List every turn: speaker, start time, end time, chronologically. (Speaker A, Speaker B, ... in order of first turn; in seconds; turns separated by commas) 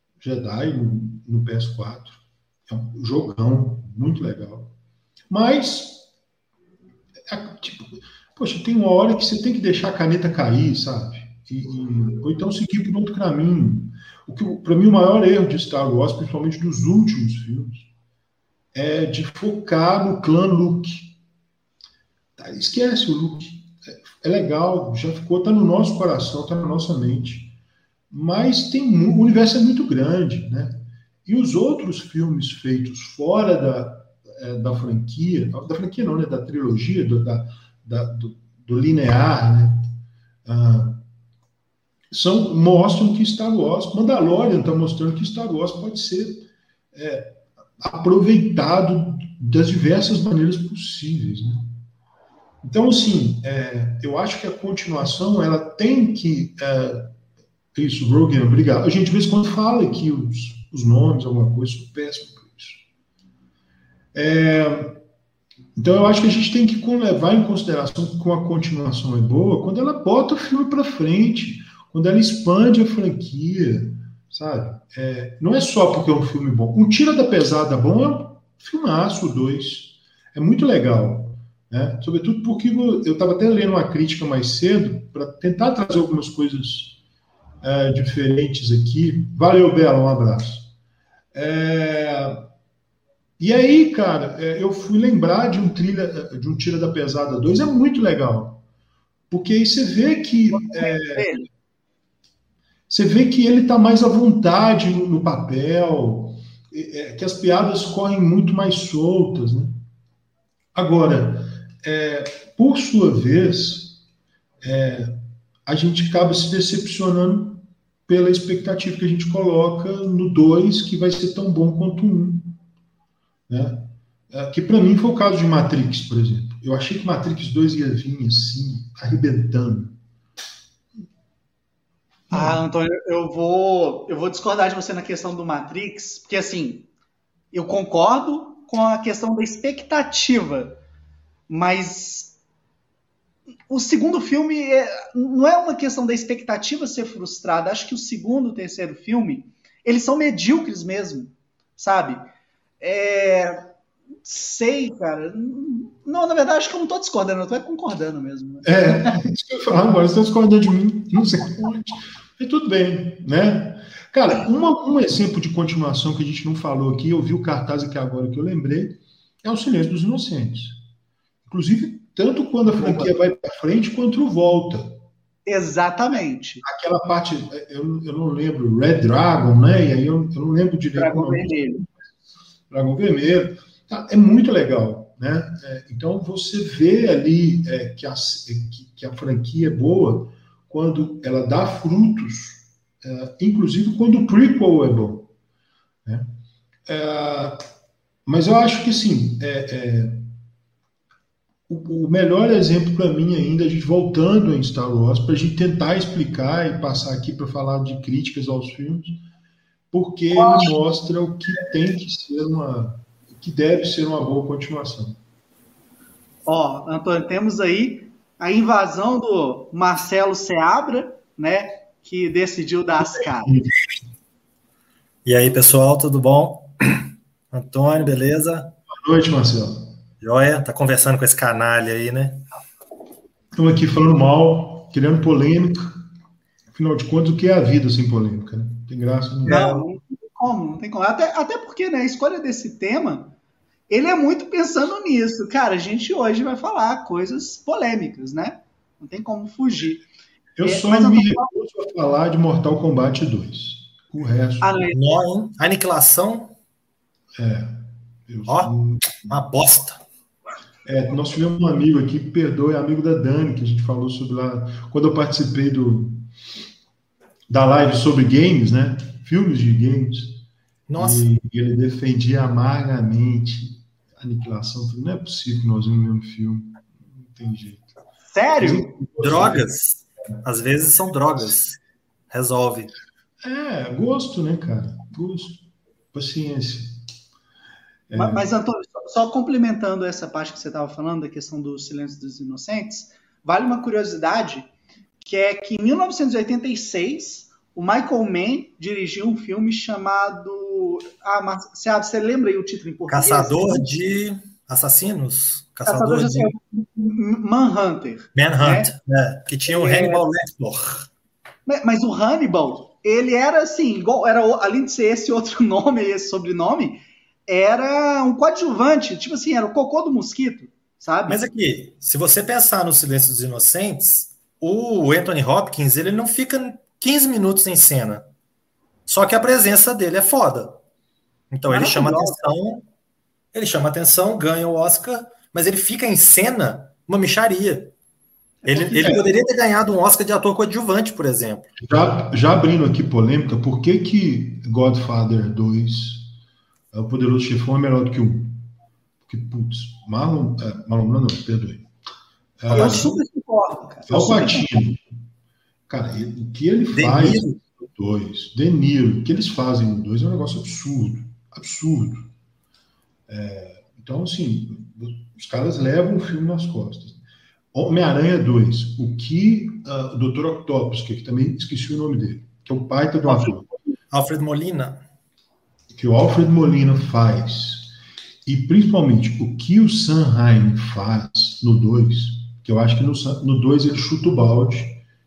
Speaker A: 0.2-4.7, Speaker A: 5.3-6.1, Speaker A: 7.3-17.9, Speaker A: 18.7-21.1, Speaker A: 22.4-27.5, Speaker A: 28.1-39.9, Speaker A: 40.5-41.0, Speaker A: 42.1-51.7, Speaker A: 52.6-57.1, Speaker A: 57.7-62.8, Speaker A: 64.1-65.0, Speaker A: 65.8-87.0, Speaker A: 87.6-90.7, Speaker A: 91.3-92.5, Speaker A: 93.4-98.6, Speaker A: 99.3-101.2, Speaker B: 100.5-101.5, Speaker A: 102.9-109.8, Speaker A: 110.7-114.0, Speaker A: 114.6-122.6, Speaker A: 123.5-129.9, Speaker A: 132.3-132.6, Speaker B: 132.3-136.9, Speaker B: 137.5-140.8, Speaker B: 141.5-142.3, Speaker B: 143.7-152.2, Speaker B: 152.8-153.7, Speaker B: 154.2-159.2, Speaker A: 158.6-170.8, Speaker A: 171.5-175.0, Speaker B: 172.8-173.1, Speaker B: 175.4-176.6, Speaker A: 176.6-181.9, Speaker B: 180.9-181.8, Speaker A: 182.7-195.3, Speaker A: 196.0-196.3, Speaker A: 196.8-197.6, Speaker A: 198.2-200.3, Speaker A: 201.7-209.2, Speaker A: 209.9-215.2, Speaker B: 210.3-210.7, Speaker B: 216.4-223.6, Speaker A: 223.2-223.7, Speaker C: 225.2-228.7, Speaker A: 228.9-229.9, Speaker C: 230.2-232.4, Speaker A: 233.6-236.0, Speaker A: 236.7-239.8, Speaker B: 239.4-243.3, Speaker B: 243.9-250.0, Speaker A: 250.6-254.8, Speaker B: 250.6-251.5, Speaker B: 254.6-255.0, Speaker C: 254.9-256.5, Speaker A: 257.4-259.3, Speaker C: 258.5-260.0, Speaker A: 260.8-266.3, Speaker A: 267.5-270.4, Speaker C: 270.9-271.2, Speaker A: 271.0-277.9, Speaker B: 278.3-278.9, Speaker A: 278.5-279.7, Speaker C: 279.2-281.8, Speaker C: 282.3-282.9, Speaker A: 283.4-287.0, Speaker A: 288.1-288.5, Speaker B: 288.1-294.7, Speaker B: 295.2-304.0, Speaker C: 303.1-306.5, Speaker B: 305.9-308.9, Speaker C: 308.3-311.1, Speaker B: 309.7-310.2, Speaker B: 311.6-321.4, Speaker C: 321.3-328.2, Speaker C: 329.1-330.8, Speaker C: 331.5-332.8, Speaker B: 331.7-332.4, Speaker C: 333.5-337.9, Speaker B: 338.6-339.1, Speaker C: 338.6-341.8, Speaker A: 338.9-339.3, Speaker A: 341.8-346.3, Speaker A: 346.9-348.7, Speaker A: 349.2-351.9, Speaker A: 352.6-353.2, Speaker B: 352.7-354.7, Speaker A: 354.1-355.0, Speaker A: 355.9-362.3, Speaker C: 356.9-357.6, Speaker A: 363.3-367.2, Speaker A: 367.7-373.7, Speaker C: 374.1-375.0, Speaker A: 375.9-385.0